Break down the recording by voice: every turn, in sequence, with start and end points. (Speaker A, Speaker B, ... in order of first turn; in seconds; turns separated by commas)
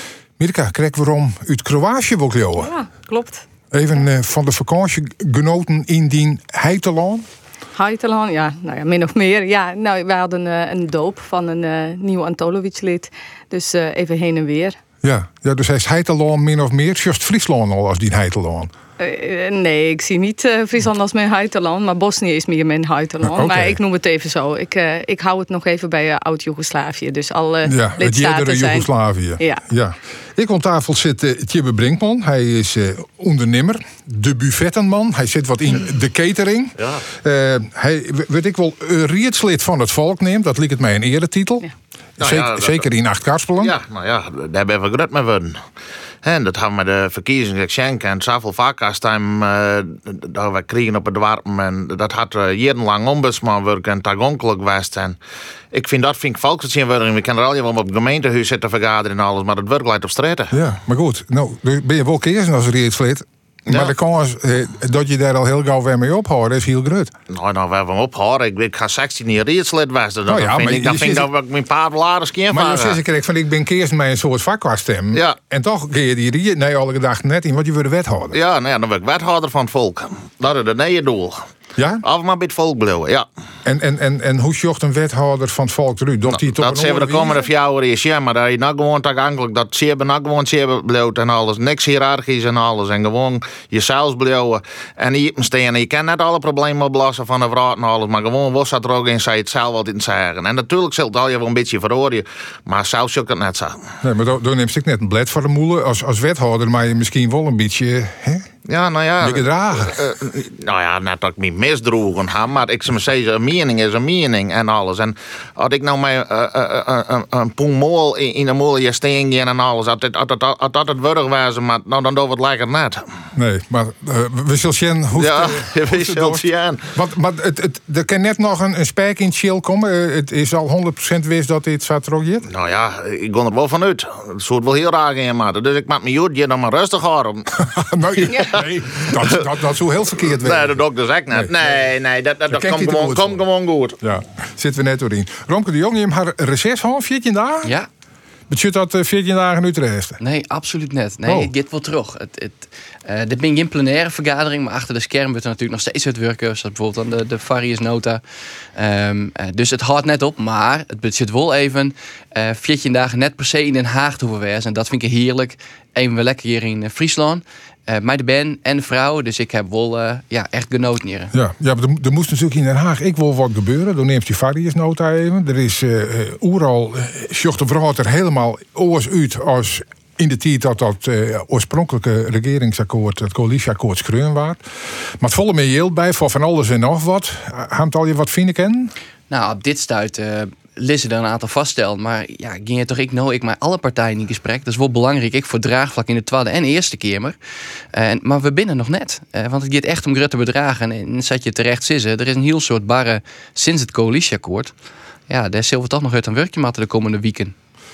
Speaker A: 0.4-2.7, Speaker B: 2.6-3.4, Speaker A: 3.7-7.2, Speaker B: 7.7-14.8, Speaker A: 15.0-18.7, Speaker B: 19.0-29.6, Speaker A: 23.2-23.8, Speaker A: 27.6-41.6, Speaker C: 36.8-37.0, Speaker A: 42.2-43.8, Speaker C: 42.2-42.8, Speaker C: 43.6-45.6, Speaker C: 46.2-55.2, Speaker C: 55.7-60.5, Speaker A: 60.5-67.1, Speaker C: 67.3-73.0, Speaker A: 70.3-71.3, Speaker A: 72.5-78.4, Speaker C: 78.3-81.5, Speaker A: 81.8-82.0, Speaker C: 82.0-83.2, Speaker A: 83.6-87.5, Speaker C: 86.3-103.8, Speaker A: 104.0-108.5, Speaker C: 108.7-123.0, Speaker A: 109.2-110.0, Speaker A: 123.3-132.5, Speaker C: 125.2-126.8, Speaker C: 132.5-137.7, Speaker A: 137.6-140.8, Speaker C: 138.3-139.5, Speaker C: 140.3-144.0, Speaker A: 142.5-143.4, Speaker A: 144.0-147.7, Speaker A: 148.5-150.2, Speaker D: 150.2-158.2, Speaker A: 151.2-151.5, Speaker D: 158.8-171.3, Speaker A: 171.3-184.6, Speaker A: 185.2-188.9, Speaker D: 189.3-197.3, Speaker D: 197.9-204.7, Speaker D: 205.3-207.5